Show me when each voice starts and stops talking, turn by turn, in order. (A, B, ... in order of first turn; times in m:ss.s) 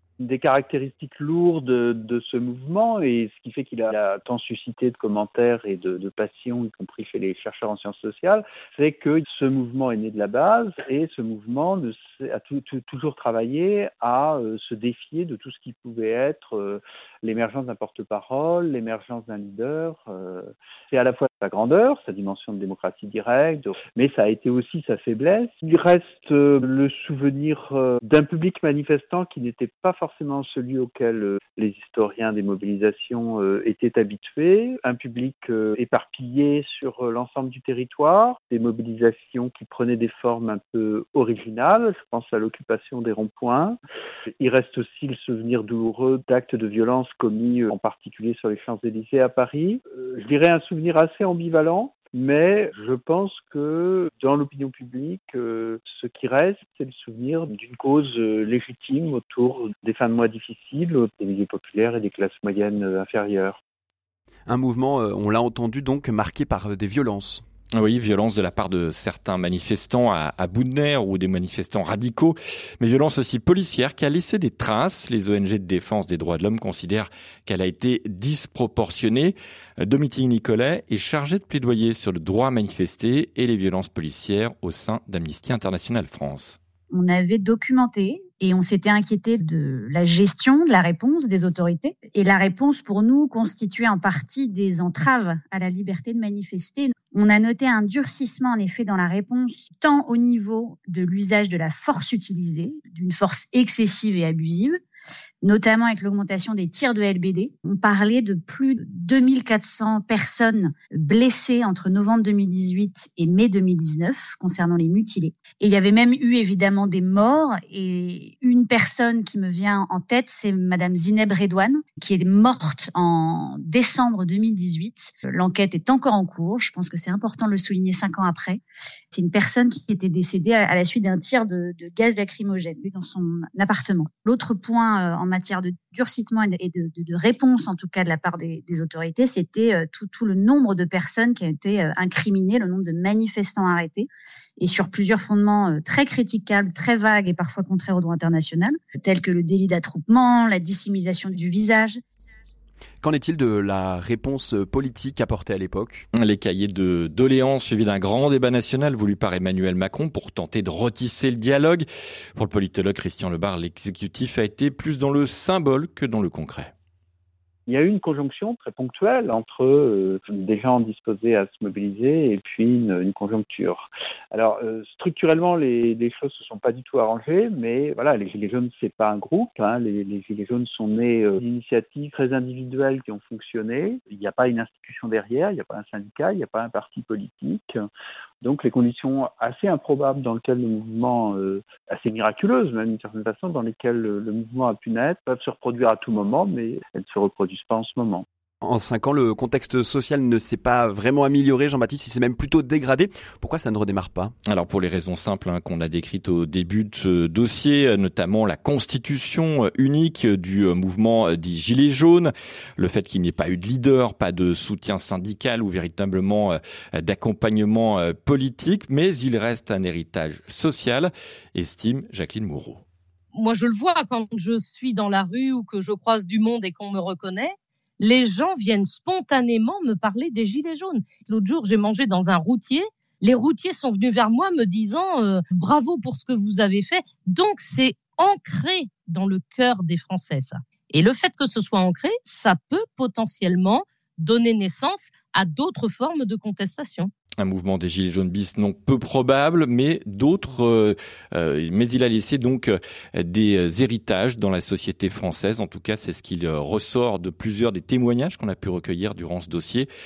0:00.2-0:43.8 A
0:44.4-1:03.6 A
1:04.4-1:07.4 B
1:07.7-1:26.6 C
1:26.9-1:44.8 D
1:45.4-2:08.6 D
2:09.1-2:24.1 D
2:24.6-2:32.0 D
2:33.0-2:36.1 B
2:36.1-2:46.7 C
2:47.7-3:07.8 A
3:08.4-3:18.2 A
3:18.6-3:24.3 B
3:24.5-3:42.8 C
3:43.3-4:07.1 E
4:07.4-4:19.9 C